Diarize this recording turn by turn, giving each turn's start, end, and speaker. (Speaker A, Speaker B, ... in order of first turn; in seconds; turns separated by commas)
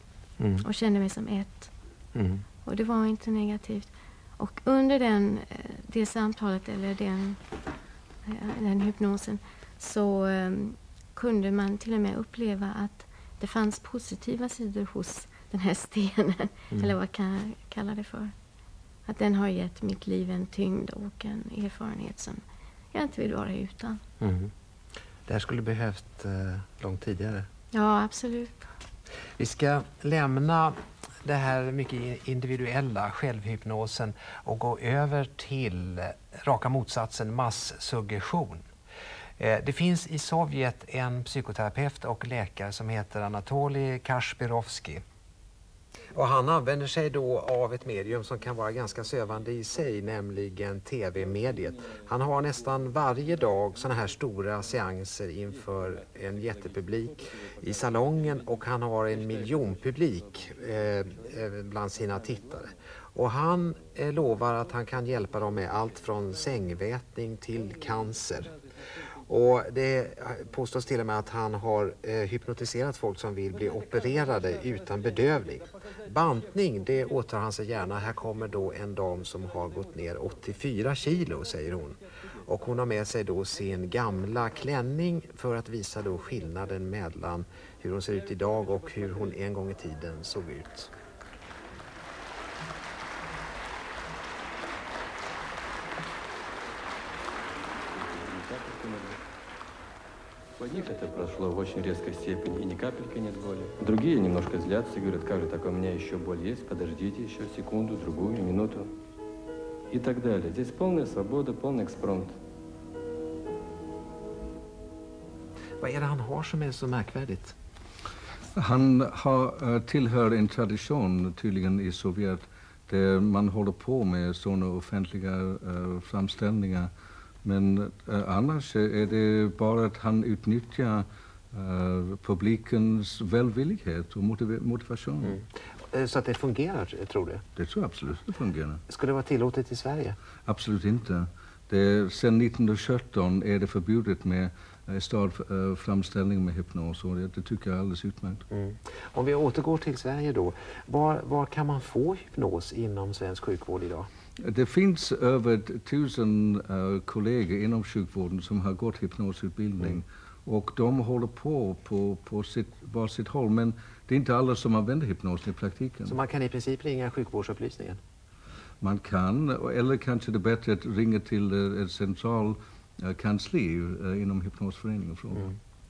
Speaker A: 0.4-0.6, Speaker B: 0.6-1.7, Speaker A: 2.1-2.4, Speaker B: 2.6-7.4, Speaker B: 8.2-18.3, Speaker B: 19.1-24.0, Speaker A: 24.2-24.5, Speaker A: 25.2-27.4, Speaker B: 27.7-28.6, Speaker A: 29.4-38.6, Speaker A: 39.4-45.0, Speaker A: 46.1-68.5, Speaker A: 69.3-90.9, Speaker C: 97.9-99.2, Speaker C: 100.6-108.9, Speaker C: 109.9-112.4, Speaker A: 115.8-117.5, Speaker D: 118.5-126.9, Speaker D: 127.4-135.4, Speaker A: 135.2-137.4, Speaker D: 137.6-138.8, Speaker A: 138.9-140.2, Speaker D: 140.4-148.4, Speaker A: 148.5-154.1, Speaker D: 154.4-166.2, Speaker A: 166.1-168.0, Speaker D: 168.8-175.5